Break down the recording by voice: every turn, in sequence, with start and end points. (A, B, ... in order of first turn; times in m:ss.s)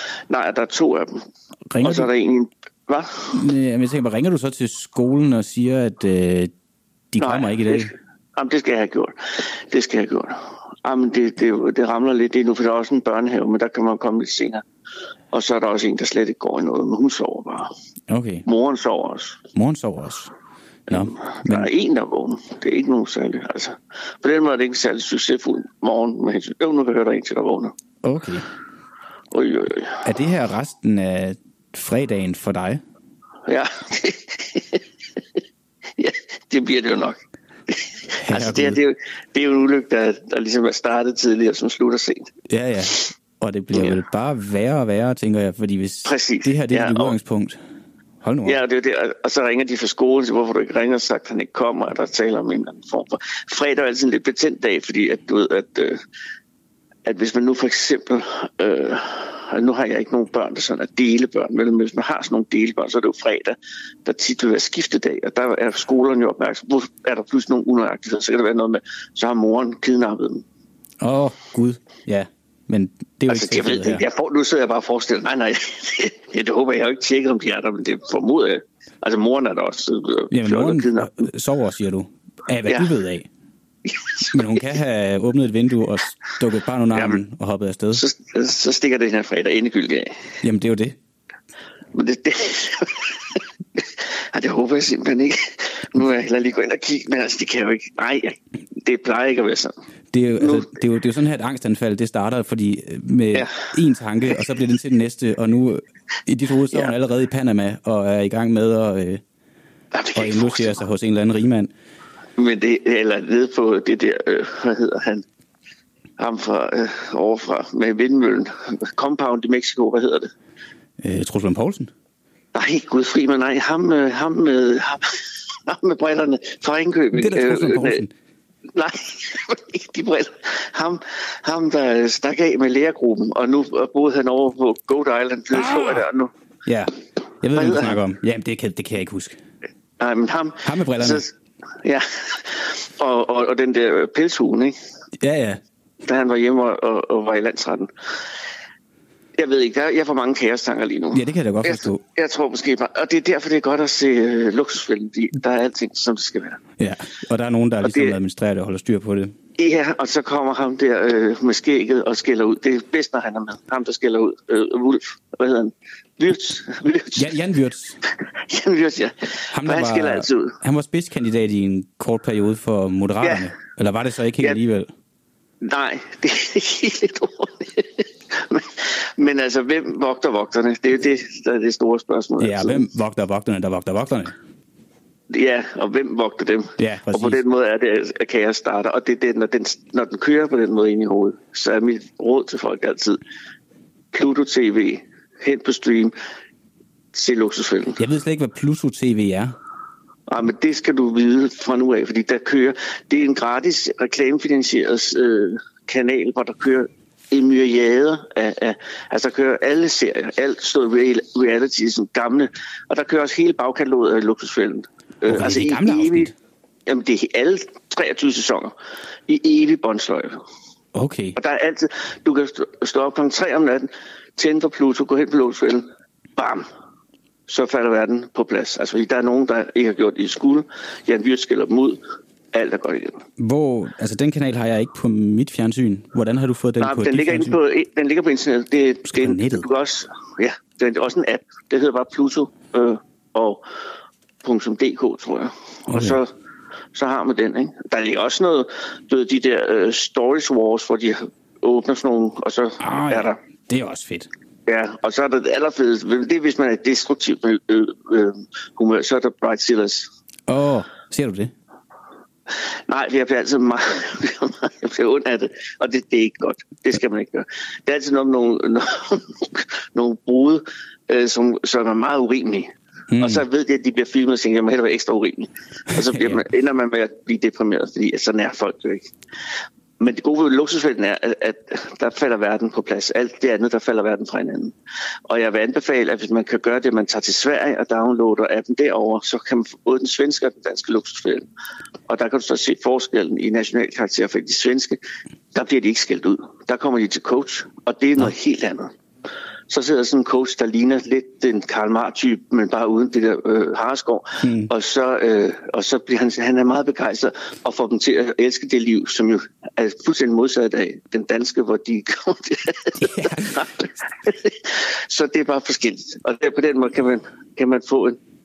0:00.3-0:01.2 A
0:01.7-0:02.1 B
0:01.8-0:03.4 A
0:03.3-0:06.5 B
0:07.1-0:07.9 B
0:07.2-0:14.6 A
0:15.3-0:17.7 A
0:18.1-0:18.5 B
0:18.5-0:19.5 A
0:19.5-0:20.3 B
0:20.9-0:21.7 B
0:20.9-0:27.7 A
0:28.0-0:28.5 B
0:29.3-0:30.1 A
0:30.0-0:32.8 B
0:33.5-0:34.8 A
0:36.0-0:42.3 A
0:38.2-0:38.8 B
0:42.5-0:47.6 B
0:43.7-0:44.0 A
0:46.0-0:47.2 A
0:48.2-0:48.6 B
0:48.5-0:56.0 A
0:57.0-1:10.4 A
1:11.0-1:14.0 B
1:13.3-1:21.3 A
1:20.3-1:23.3 B
1:23.9-1:24.6 A
1:24.3-1:28.0 B
1:26.9-1:27.2 A
1:27.9-1:30.1 A
1:30.4-1:31.0 B
1:31.9-1:39.8 A
1:40.1-1:49.2 B
1:40.4-1:40.7 A
1:49.9-1:50.8 A
1:50.2-1:51.7 B
1:52.4-1:55.2 A
1:56.2-2:00.3 A
2:01.0-2:01.9 B
2:02.5-2:08.0 A
2:07.1-2:08.1 B
2:08.7-2:16.3 A
2:15.5-2:16.1 B
2:16.7-2:19.4 B
2:17.6-2:18.0 A
2:20.0-2:21.3 A
2:20.6-2:21.2 B
2:21.8-2:24.8 A
2:25.2-2:25.6 B
2:26.0-2:27.9 A
2:29.4-2:36.6 A
2:31.1-2:32.0 B
2:36.8-2:39.3 B
2:37.8-2:38.2 A
2:39.6-2:47.3 A
2:47.2-2:48.0 B
2:48.4-2:50.6 A
2:49.5-2:54.9 B
2:53.2-2:53.5 A
2:55.6-3:02.9 A
3:02.4-3:04.3 B
3:05.3-3:13.2 A
3:06.8-3:07.4 B
3:14.1-3:16.1 A
3:17.1-3:18.0 A
3:18.0-3:19.6 B
3:20.3-3:36.3 A
3:35.3-3:36.3 B
3:36.9-3:38.7 A
3:39.3-3:40.4 A
3:41.0-3:41.4 B
3:41.4-3:46.6 A
3:47.5-3:52.0 A
3:52.5-3:53.2 A
3:53.4-3:57.6 B
3:56.8-4:03.6 A
3:59.1-3:59.7 B
4:04.4-4:06.3 A
4:05.9-4:06.2 B
4:06.9-4:13.4 A
4:12.8-4:14.3 B
4:14.7-4:20.1 A
4:20.5-4:21.5 B
4:22.9-4:39.1 A
4:33.1-4:33.4 B
4:36.0-4:36.4 B
4:40.0-4:44.7 A
4:45.3-4:51.5 A
4:52.1-4:55.0 A
4:55.5-4:58.9 A
4:59.7-5:18.2 A
5:04.4-5:04.7 B
5:13.0-5:13.5 B